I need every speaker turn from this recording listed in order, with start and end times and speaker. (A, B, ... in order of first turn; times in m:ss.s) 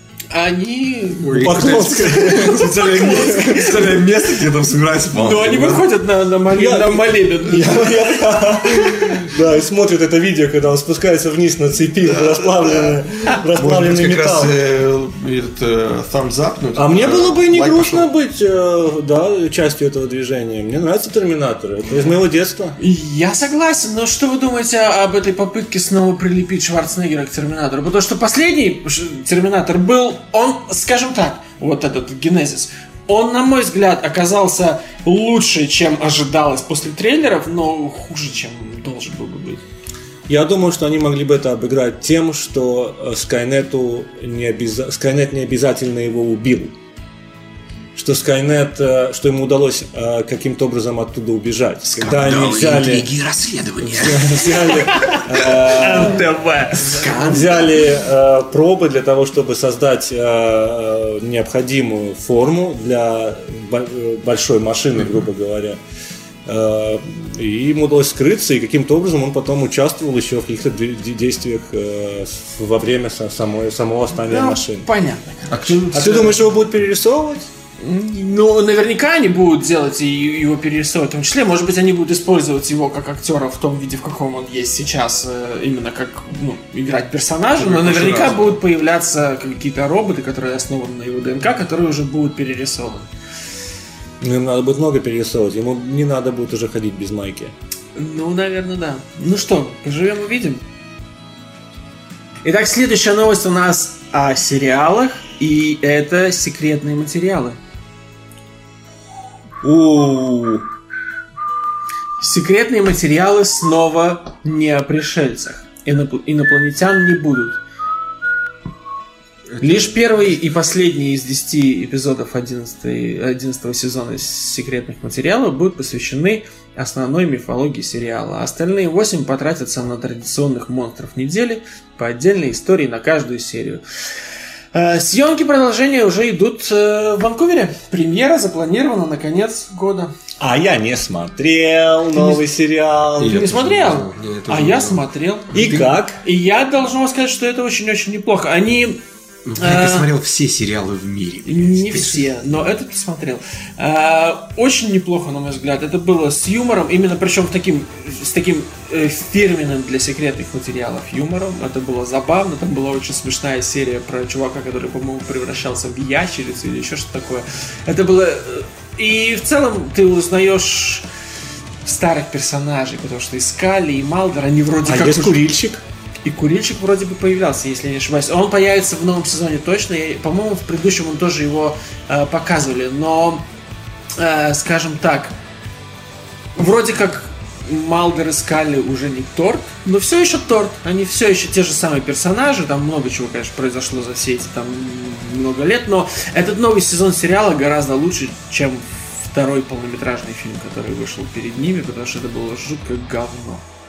0:00.3-0:04.0 A
0:01.2-0:05.9 B
0:01.4-0:03.7 C
0:05.1-0:08.5 A
0:06.5-0:14.5 C
0:12.4-0:13.0 B
0:13.5-0:18.1 B
0:16.8-0:22.8 C
0:22.8-0:39.6 A
0:40.3-0:46.7 C
0:47.9-0:53.1 C
0:51.9-0:56.3 B
0:53.8-0:56.2 C
0:54.7-0:57.1 A
0:56.9-0:57.7 B
0:57.0-1:05.8 C
1:06.4-1:14.9 C
1:14.2-1:16.0 A
1:15.5-1:16.4 B
1:15.9-1:17.5 C
1:17.8-1:33.1 A
1:27.5-1:28.6 B
1:34.2-1:37.5 C
1:37.9-1:40.6 A
1:42.4-1:47.6 A
1:49.6-1:50.6 C
1:52.2-1:57.6 A
1:59.5-2:00.0 B
1:59.6-2:13.8 A
2:14.7-2:20.1 A
2:20.4-2:23.4 C
2:22.1-2:22.4 A
2:23.2-2:26.0 B
2:23.2-2:29.0 A
2:25.5-2:26.2 C
2:29.4-2:32.3 B
2:29.6-2:30.1 A
2:31.4-2:51.1 A
2:51.8-2:55.5 A
2:54.8-2:55.8 C
2:56.2-3:03.5 A
3:04.2-3:05.4 A
3:06.6-3:23.6 A